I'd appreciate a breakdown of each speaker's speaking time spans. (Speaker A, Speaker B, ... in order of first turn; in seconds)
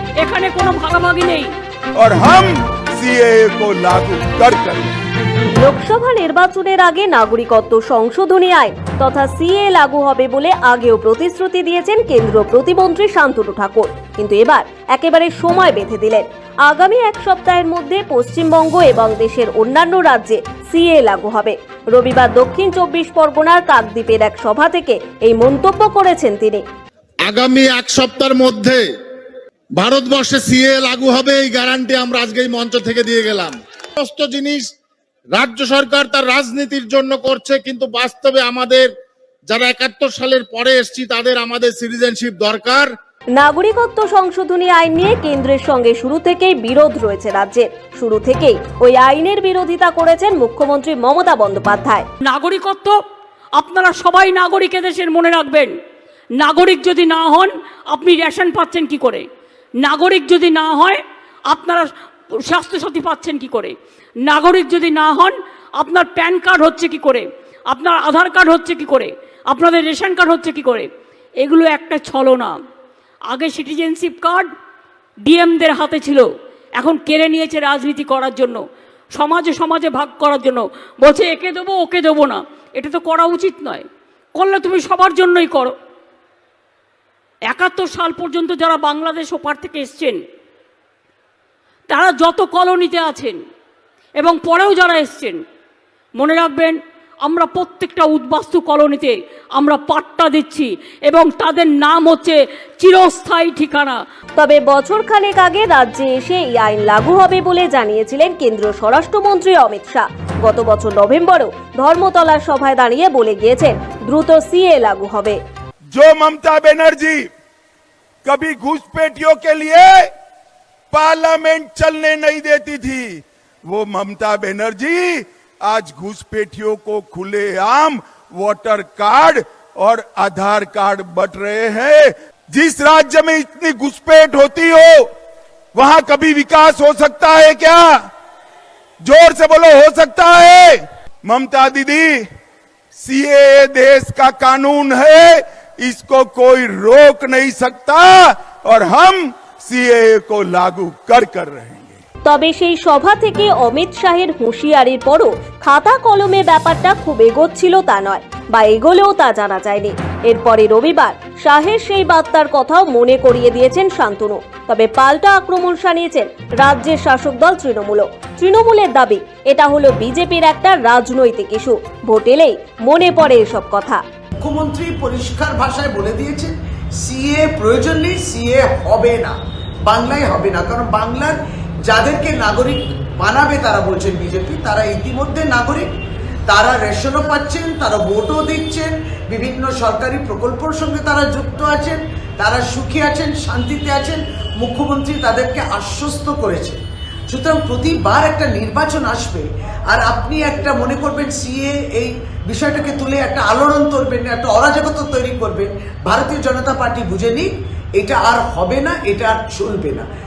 Speaker A: 0.2-1.5, 52.2-53.0, 53.6-55.7, 56.4-59.2, 59.8-61.8, 62.5-63.7, 64.2-70.9, 71.4-72.5, 73.3-74.5, 75.2-78.6, 79.1-83.8, 84.3-85.7, 87.5-90.2, 91.9-93.4, 94.2-95.4, 96.2-104.0
Speaker B: 1.9-5.0, 115.9-117.3, 118.2-120.1, 120.9-135.1, 135.7-138.1, 139.0-142.2, 142.9-152.0
Speaker C: 5.6-26.6, 43.4-52.0, 104.4-115.4, 152.2-174.0
Speaker D: 27.2-28.9, 29.8-34.7, 35.3-38.9, 39.5-42.9
Speaker E: 174.4-185.9, 186.5-210.1